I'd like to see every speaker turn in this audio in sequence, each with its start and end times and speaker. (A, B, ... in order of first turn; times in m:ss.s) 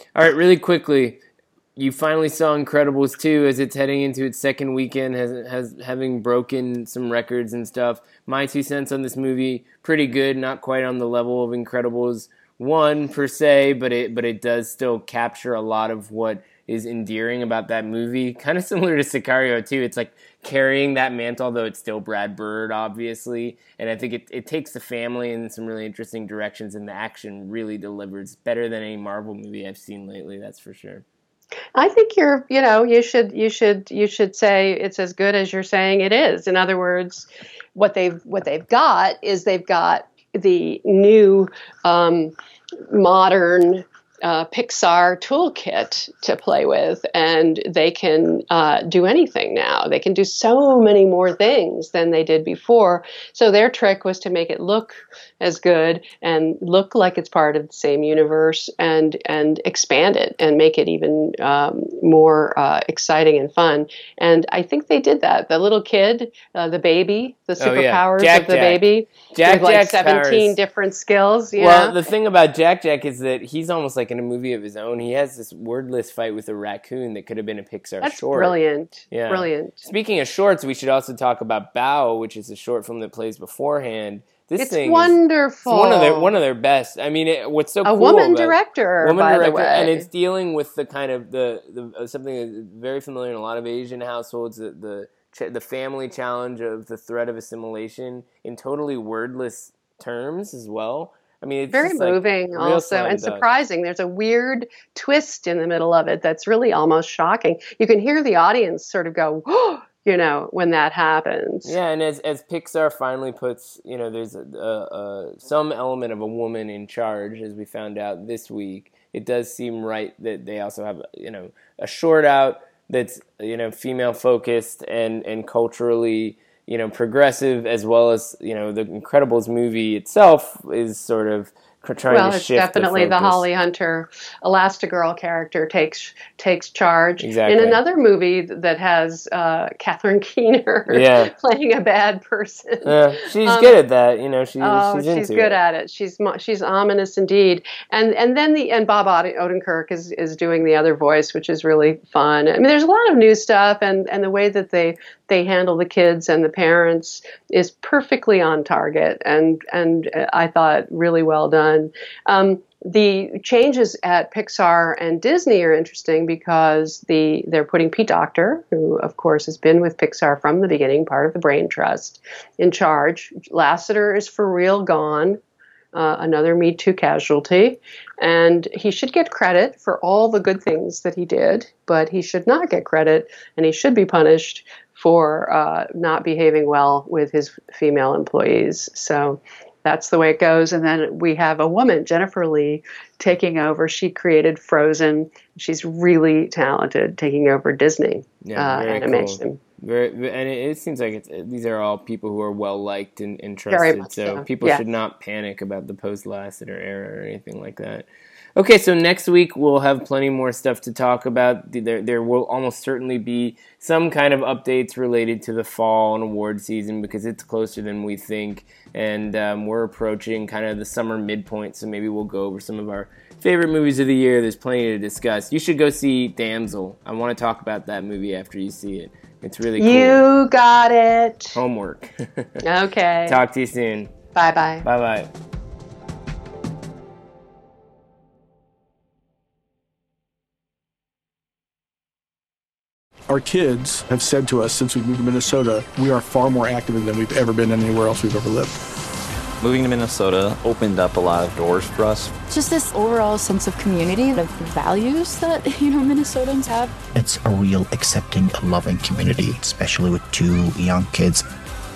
0:00.1-0:01.2 A
0:01.8-0:31.0 A
0:31.7-0:42.3 B
0:42.9-1:11.9 B
1:07.6-1:10.6 A
1:11.6-1:18.5 A
1:18.0-1:19.9 B
1:19.1-1:43.4 A
1:24.6-1:26.3 B
1:27.8-1:30.1 B
1:41.7-1:51.8 B
1:51.6-2:13.4 A
2:12.1-2:23.7 B
2:17.2-2:17.8 A
2:20.9-2:21.3 A
2:22.8-2:25.6 A
2:24.6-2:55.4 B
2:55.9-3:19.6 B
3:18.4-3:50.2 A
3:23.7-3:24.8 B
3:49.8-3:51.6 B
3:51.5-3:52.6 A
3:52.6-3:53.4 B
3:53.3-3:54.1 A
3:54.4-3:54.8 B
3:54.8-3:55.3 A
4:03.3-4:08.7 C
4:09.6-4:12.3 D
4:12.5-4:16.9 E
4:17.1-4:21.4 F